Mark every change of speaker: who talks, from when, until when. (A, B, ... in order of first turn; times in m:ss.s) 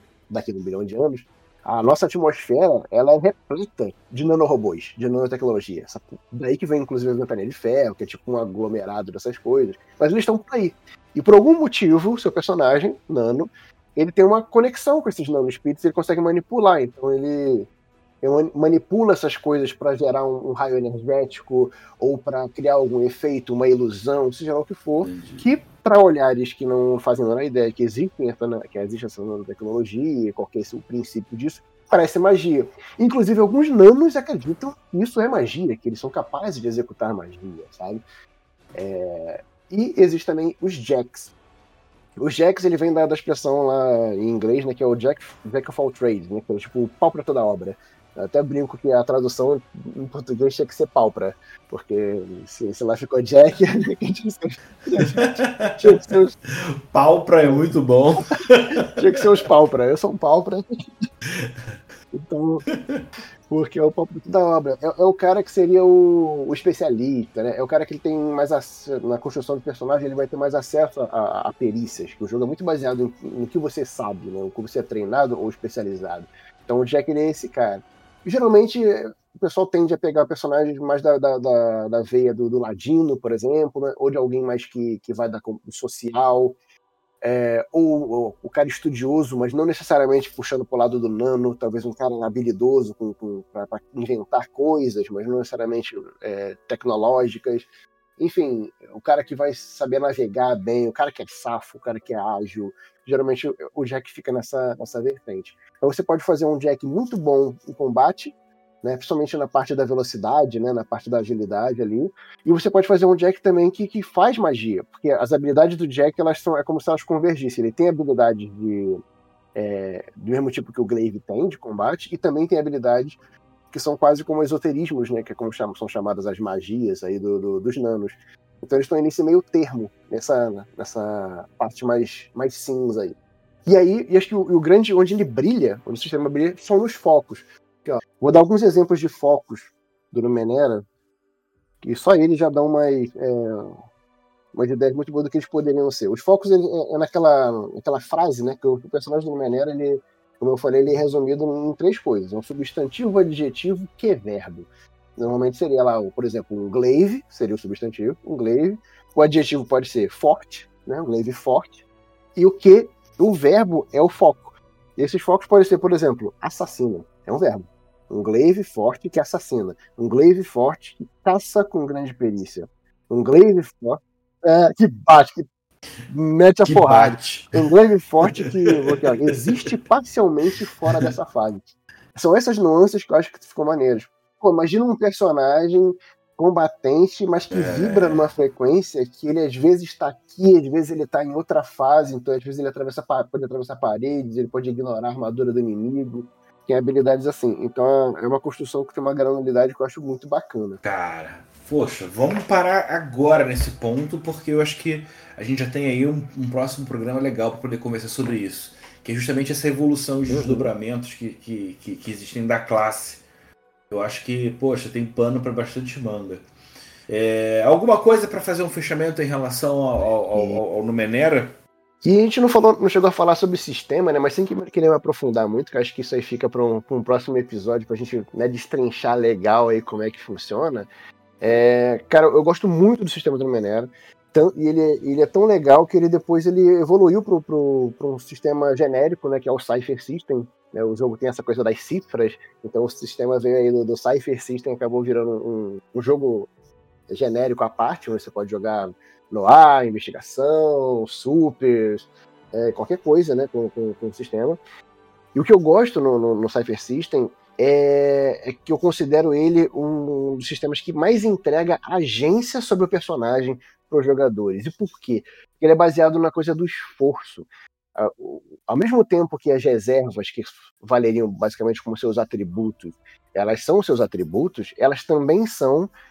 0:00.3-0:17.7 A
0:18.2-0:38.0 A
0:25.0-0:25.4 B
0:38.7-0:41.3 A
0:42.2-0:56.4 A
0:55.0-0:56.0 B
0:56.5-0:59.2 B
0:57.4-0:57.7 A
0:58.7-1:01.0 A
1:01.3-1:01.7 B
1:02.1-1:02.6 A
1:02.7-1:03.0 B
1:03.5-1:26.6 A
1:27.2-1:37.7 A
1:38.2-1:59.0 A
1:59.5-2:03.2 A
2:03.7-2:20.8 A
2:21.8-2:23.8 A
2:24.5-2:41.8 A
2:42.4-2:55.5 A
2:56.1-3:20.8 A
2:56.6-2:57.6 B
2:58.4-2:59.1 B
3:07.5-3:08.3 B
3:20.8-3:33.2 B
3:30.3-3:30.7 A
3:33.9-3:36.4 B
3:37.1-3:41.6 B
3:40.3-3:40.6 A
3:42.0-3:50.9 A
3:51.4-4:06.5 A
4:07.1-4:14.6 A
4:15.3-4:35.9 A